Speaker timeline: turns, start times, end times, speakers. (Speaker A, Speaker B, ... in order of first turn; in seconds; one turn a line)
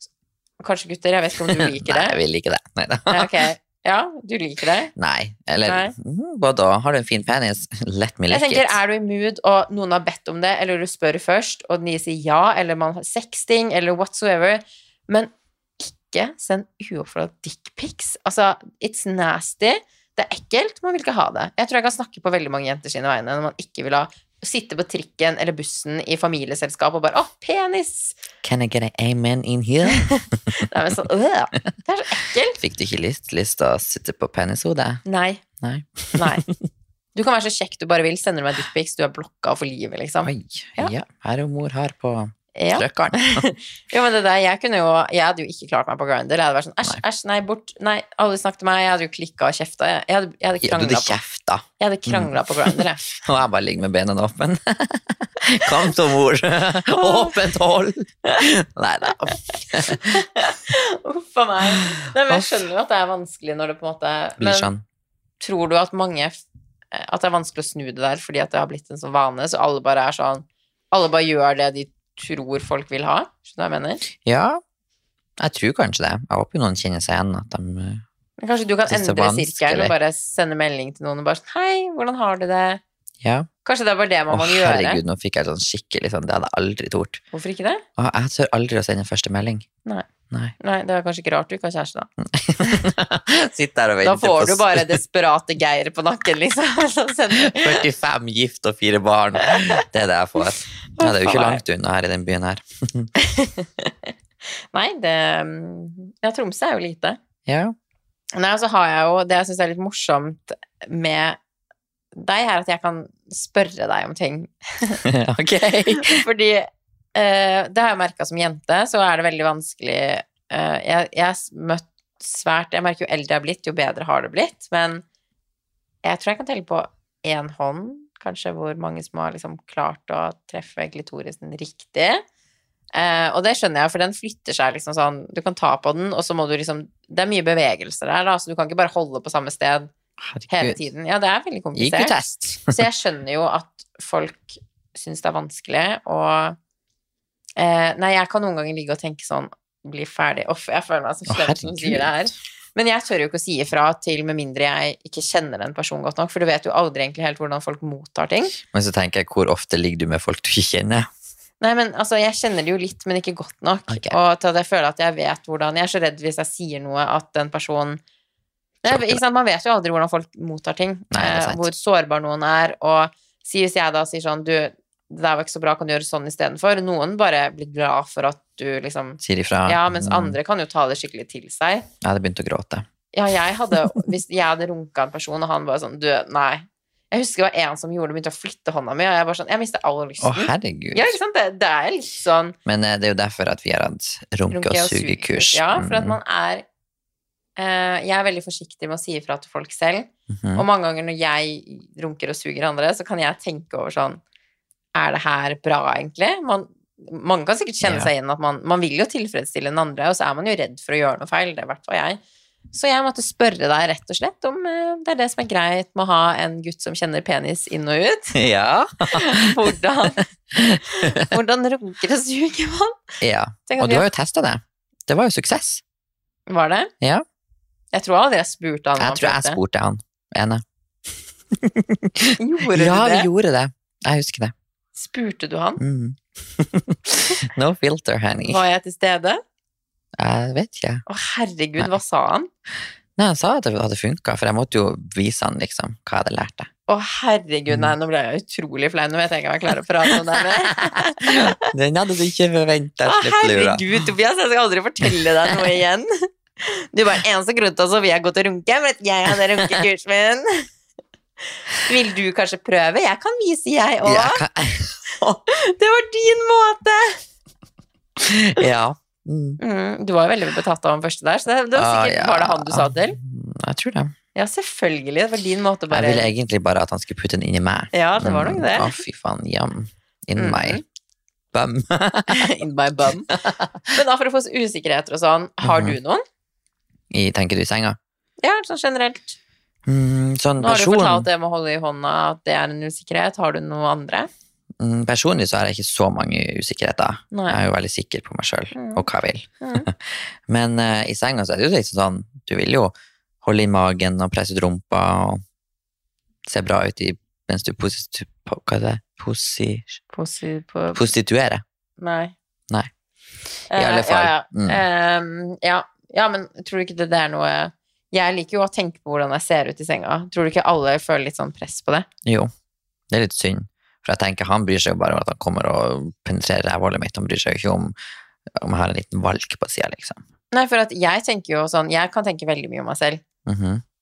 Speaker A: 0.6-2.2
Speaker B: 1.4-3.4
Speaker A: 3.1-4.9
Speaker B: 5.0-8.8
Speaker A: 5.7-5.9
Speaker A: 8.3-28.2
Speaker B: 28.4-30.6
Speaker A: 29.9-32.6
Speaker B: 32.6-35.0
Speaker A: 35.0-35.4
Speaker B: 35.6-36.5
Speaker A: 36.1-36.5
Speaker A: 37.1-40.9
Speaker B: 40.2-43.5
Speaker A: 42.5-51.2
Speaker B: 50.6-60.2
Speaker A: 51.8-53.0
Speaker A: 56.9-57.5
Speaker A: 59.3-64.7
Speaker B: 61.8-62.6
Speaker B: 64.4-64.8
Speaker A: 65.4-66.4
Speaker A: 66.9-74.0
Speaker B: 74.2-74.6
Speaker B: 75.4-78.0
Speaker A: 78.4-82.8
Speaker B: 78.9-79.9
Speaker B: 83.2-83.5
Speaker A: 83.7-85.0
Speaker B: 84.3-87.2
Speaker A: 87.3-87.8
Speaker B: 88.0-89.7
Speaker A: 90.6-92.1
Speaker B: 92.2-95.0
Speaker A: 94.0-97.9
Speaker B: 97.3-103.1
Speaker A: 99.4-99.8
Speaker A: 101.0-101.6
Speaker A: 103.2-107.2
Speaker B: 107.5-107.8
Speaker A: 108.3-111.4
Speaker A: 112.2-115.0
Speaker B: 115.0-116.2
Speaker A: 115.9-125.0
Speaker A: 126.0-132.2
Speaker A: 132.9-139.9
Speaker B: 140.2-140.8
Speaker A: 140.5-142.2
Speaker B: 141.8-142.8
Speaker A: 142.7-146.6
Speaker A: 147.6-158.6
Speaker B: 151.3-152.1
Speaker B: 158.7-161.1
Speaker A: 161.6-168.0
Speaker B: 163.9-164.2
Speaker A: 168.8-181.9
Speaker B: 168.8-169.2
Speaker B: 171.1-171.7
Speaker B: 179.2-180.4
Speaker B: 182.0-182.9
Speaker A: 183.1-192.6
Speaker B: 190.2-191.2
Speaker B: 192.7-196.2
Speaker A: 194.5-196.6
Speaker A: 197.6-204.2
Speaker B: 200.3-200.7
Speaker A: 204.9-212.2
Speaker B: 207.8-208.1
Speaker A: 212.7-218.4
Speaker B: 218.3-219.8
Speaker A: 219.1-220.3
Speaker B: 220.5-221.3
Speaker A: 220.8-223.1
Speaker B: 223.2-225.8
Speaker A: 223.7-224.1
Speaker A: 226.5-226.9
Speaker A: 227.9-229.6
Speaker B: 229.0-230.6
Speaker B: 231.5-234.5
Speaker A: 232.4-233.3
Speaker A: 235.0-235.8
Speaker B: 235.8-238.6
Speaker A: 238.5-239.4
Speaker B: 240.2-241.0
Speaker A: 241.1-242.5
Speaker B: 243.2-246.7
Speaker A: 246.9-251.7
Speaker B: 247.7-247.9
Speaker B: 250.1-253.8
Speaker A: 253.1-260.7
Speaker A: 261.8-264.4
Speaker B: 264.0-265.2
Speaker A: 265.2-267.2
Speaker B: 268.2-269.6
Speaker A: 269.6-273.2
Speaker B: 271.8-274.1
Speaker A: 274.4-276.3
Speaker B: 275.9-280.8
Speaker A: 277.9-279.0
Speaker A: 280.4-280.8
Speaker B: 281.5-282.5
Speaker A: 282.3-283.3
Speaker B: 283.3-283.9
Speaker A: 283.9-286.2
Speaker B: 285.6-286.0
Speaker B: 287.1-288.0
Speaker A: 288.4-289.4
Speaker B: 289.9-291.3
Speaker A: 290.6-294.3
Speaker B: 294.8-305.4
Speaker A: 297.3-297.6
Speaker A: 298.7-299.1
Speaker A: 299.6-299.9
Speaker B: 306.5-310.0
Speaker A: 310.1-311.0
Speaker B: 310.9-311.6
Speaker A: 312.0-312.3
Speaker A: 313.7-322.1
Speaker B: 313.7-314.8
Speaker B: 322.2-322.5
Speaker B: 323.1-328.0
Speaker B: 328.5-330.2
Speaker A: 330.5-333.2
Speaker B: 333.5-333.8